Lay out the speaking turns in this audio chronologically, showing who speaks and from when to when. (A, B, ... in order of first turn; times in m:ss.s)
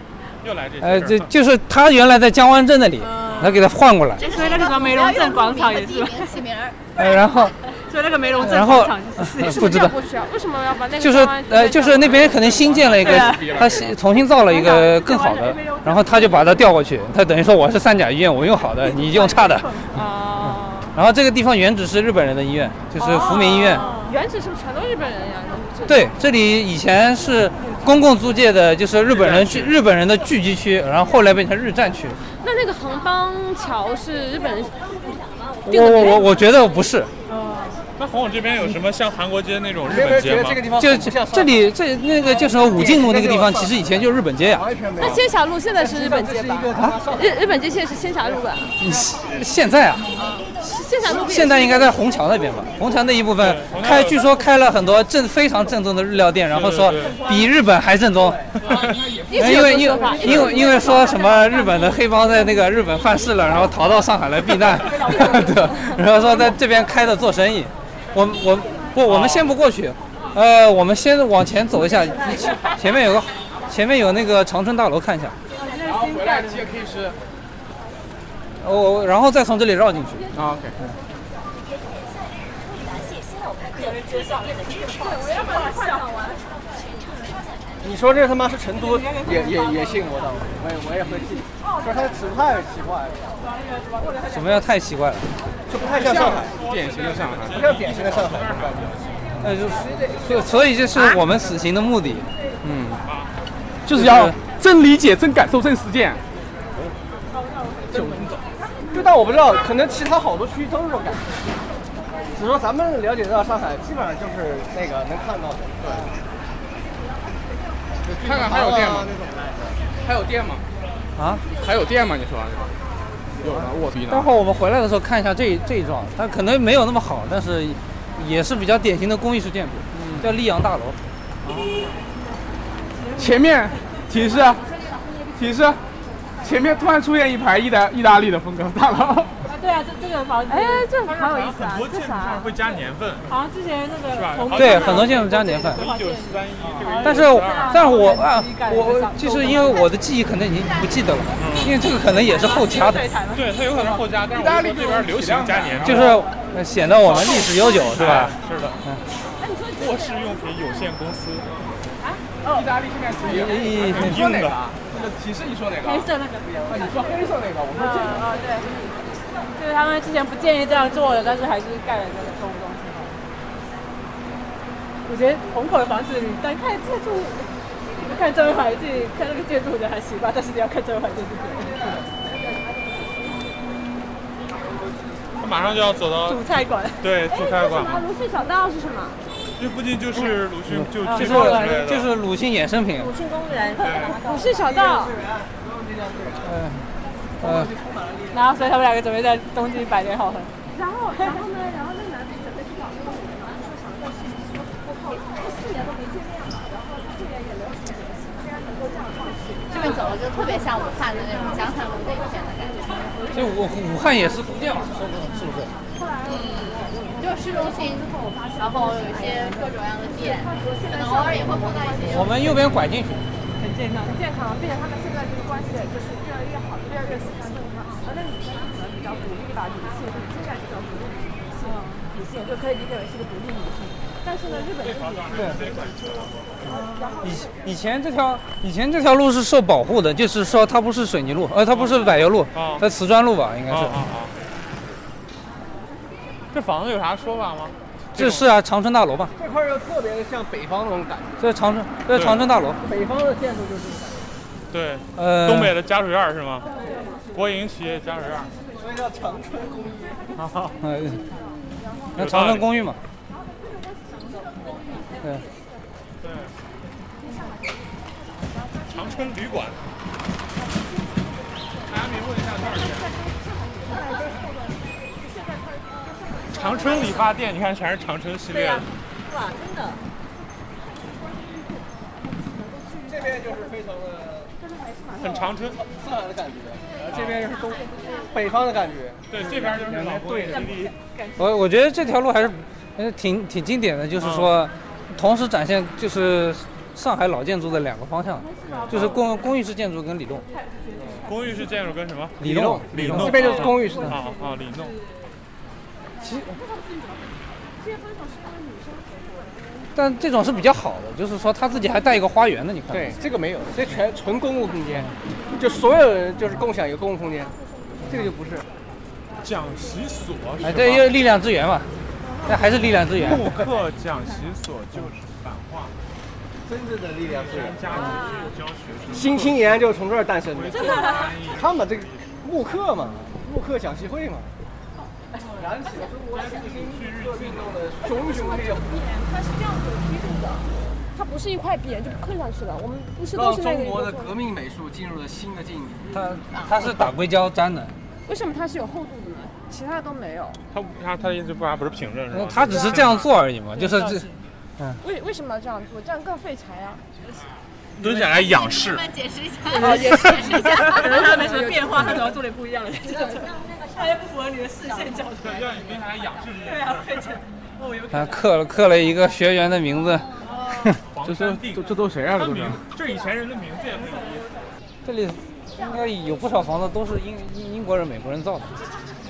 0:00.4-0:01.3 A
0:00.8-0:04.2 B
0:03.0-0:03.6 C
0:04.2-0:06.8 D
0:04.2-0:06.2 C
0:07.0-0:07.6 B
0:07.0-0:09.7 C
0:08.4-0:10.0 B
0:09.4-0:12.4 E
0:11.0-0:19.7 B
0:12.1-0:14.0 F
0:13.0-0:13.5 C
0:14.5-0:16.7 C
0:18.8-0:20.0 C
0:19.9-0:21.0 E
0:20.4-0:23.9 B
0:23.0-0:26.1 E
0:23.0-0:24.2 C
0:25.9-0:32.2 B
0:29.1-0:29.8 A
0:32.4-0:34.8 E
0:34.8-0:36.4 G
0:35.6-0:37.1 B
0:35.8-0:36.3 E
0:37.3-0:37.8 C
0:38.0-0:40.6 A
0:39.8-0:41.7 H
0:40.8-0:44.6 B
0:42.4-0:48.5 H
0:45.0-0:48.8 E
0:46.8-0:47.0 B
0:48.8-0:50.1 B
0:50.2-0:52.0 E
0:51.0-0:58.5 B
0:53.4-0:54.2 A
0:56.5-0:57.2 A
0:56.9-0:57.5 H
0:58.1-0:58.6 H
0:58.6-1:00.7 F
0:59.3-1:01.0 E
0:59.3-1:15.4 B
0:59.4-1:02.0 C
1:04.7-1:06.1 E
1:05.1-1:05.6 C
1:09.1-1:09.5 A
1:12.0-1:12.6 G
1:15.5-1:16.8 C
1:15.8-1:17.2 F
1:18.6-1:20.2 B
1:20.3-1:20.8 F
1:23.8-1:26.0 C
1:24.5-1:26.4 E
1:27.8-1:33.4 H
1:28.7-1:30.2 C
1:31.6-1:32.1 E
1:33.4-1:34.6 C
1:34.3-1:35.3 B
1:35.7-1:36.6 H
1:35.8-1:37.6 F
1:36.3-1:39.1 A
1:37.5-1:38.9 H
1:39.4-1:43.0 B
1:43.0-1:43.3 A
1:43.8-1:46.2 F
1:43.9-1:44.4 B
1:47.9-1:48.4 F
1:48.9-1:51.3 H
1:52.3-1:56.2 H
1:55.8-1:56.1 F
1:58.0-1:59.8 H
1:58.1-1:59.1 F
2:00.0-2:00.6 F
2:01.2-2:01.4 B
2:01.5-2:02.7 F
2:03.4-2:04.3 F
2:03.4-2:03.7 H
2:04.1-2:11.0 B
2:09.9-2:10.3 F
2:11.4-2:11.9 F
2:11.5-2:12.0 C
2:12.9-2:14.1 C
2:13.2-2:14.6 F
2:15.4-2:15.8 F
2:16.4-2:19.3 F
2:19.4-2:20.9 C
2:20.5-2:22.5 E
2:21.0-2:23.2 A
2:23.3-2:29.9 C
2:24.1-2:27.8 A
2:24.5-2:25.8 B
2:27.0-2:33.0 B
2:31.4-2:31.8 A
2:32.1-2:33.5 C
2:33.3-2:36.2 A
2:33.7-2:36.2 F
2:35.8-2:39.0 B
2:36.1-2:36.4 C
2:37.0-2:38.8 A
2:39.4-2:40.2 E
2:39.8-2:41.5 A
2:42.4-2:42.7 C
2:42.4-2:46.1 F
2:43.2-2:44.2 B
2:43.8-2:44.6 A
2:45.8-2:47.1 C
2:46.6-2:48.3 F
2:47.7-2:48.6 C
2:48.2-2:48.7 E
2:49.6-2:53.2 C
2:55.1-3:02.0 C
3:04.6-3:05.2 H
3:05.4-3:06.4 A
3:06.2-3:07.0 C
3:07.0-3:08.0 A
3:07.3-3:09.2 E
3:09.6-3:12.1 A
3:10.2-3:13.1 B
3:11.0-3:11.8 C
3:12.9-3:14.6 G
3:13.8-3:14.2 A
3:13.9-3:14.7 C
3:14.2-3:15.1 E
3:14.6-3:16.6 H
3:16.4-3:16.9 B
3:17.4-3:17.7 B
3:17.4-3:18.4 H
3:18.3-3:20.5 C
3:20.7-3:33.6 E
3:29.7-3:32.9 D
3:33.3-3:35.7 B
3:35.9-3:42.7 E
3:36.3-3:42.3 D
3:42.0-3:43.2 B
3:43.6-3:44.2 C
3:44.0-3:56.0 E
3:51.6-3:52.1 C
3:54.8-3:56.6 A
3:55.3-3:55.6 B
3:56.6-3:57.7 E
3:56.7-3:57.1 C
3:57.2-4:04.0 B
4:01.7-4:02.8 A
4:03.7-4:04.3 A
4:06.5-4:08.5 A
4:08.2-4:09.3 B
4:09.4-4:11.6 H
4:11.4-4:12.8 B
4:12.1-4:12.5 A
4:12.8-4:14.3 H
4:14.7-4:16.7 A
4:15.2-4:15.8 B
4:16.7-4:17.3 E
4:17.3-4:18.5 A
4:18.4-4:20.2 H
4:20.4-4:20.8 A
4:20.8-4:21.2 B
4:21.8-4:22.1 E
4:22.2-4:23.0 B
4:22.2-4:22.7 A
4:24.1-4:25.0 E
4:26.2-4:26.5 A
4:27.3-4:27.6 E
4:28.5-4:29.3 E
4:28.9-4:29.8 A
4:31.9-4:33.1 A
4:32.6-4:37.3 E
4:36.5-4:38.9 A
4:38.5-4:40.0 G
4:41.2-4:43.7 E
4:43.1-4:44.5 H
4:44.6-4:45.6 E
4:45.2-4:45.8 A
4:45.6-4:50.8 H
4:47.0-4:48.4 E
4:47.1-4:47.5 A
4:49.3-4:50.9 A
4:50.4-4:51.6 C
4:51.4-5:00.4 B
4:54.2-4:54.5 A
4:58.7-4:59.0 H
4:58.9-4:59.2 A
5:00.5-5:01.7 C
5:01.2-5:05.0 A
5:02.4-5:03.5 B
5:02.4-5:04.1 H
5:03.5-5:05.0 C
5:03.8-5:04.3 E
5:06.2-5:06.5 B
5:06.4-5:09.6 E
5:10.0-5:13.1 B
5:12.9-5:17.5 H
5:18.1-5:18.6 H
5:19.4-5:21.1 A
5:20.6-5:21.9 B
5:22.5-5:23.6 B
5:23.1-5:25.9 A
5:26.6-5:28.1 H
5:27.2-5:29.8 A
5:29.1-5:34.6 H
5:30.5-5:32.4 A
5:35.6-5:39.0 H
5:35.8-5:36.5 E
5:36.3-5:37.8 A
5:38.0-5:44.4 E
5:43.3-5:46.1 H
5:46.1-5:47.9 B
5:48.3-5:50.6 E
5:50.7-5:53.3 A
5:52.3-5:54.3 B
5:52.6-5:53.0 E
5:53.7-5:54.4 C
5:55.0-5:57.0 E
5:58.0-5:59.1 A
5:58.1-5:58.4 E
5:59.0-5:59.6 D
5:59.7-6:05.7 C
5:59.7-6:02.4 E
6:00.1-6:00.6 A
6:03.1-6:03.5 E
6:05.4-6:07.4 A
6:06.6-6:08.4 C
6:08.1-6:11.0 B
6:10.5-6:10.8 C
6:11.1-6:14.5 A
6:11.2-6:12.8 F
6:15.0-6:18.8 B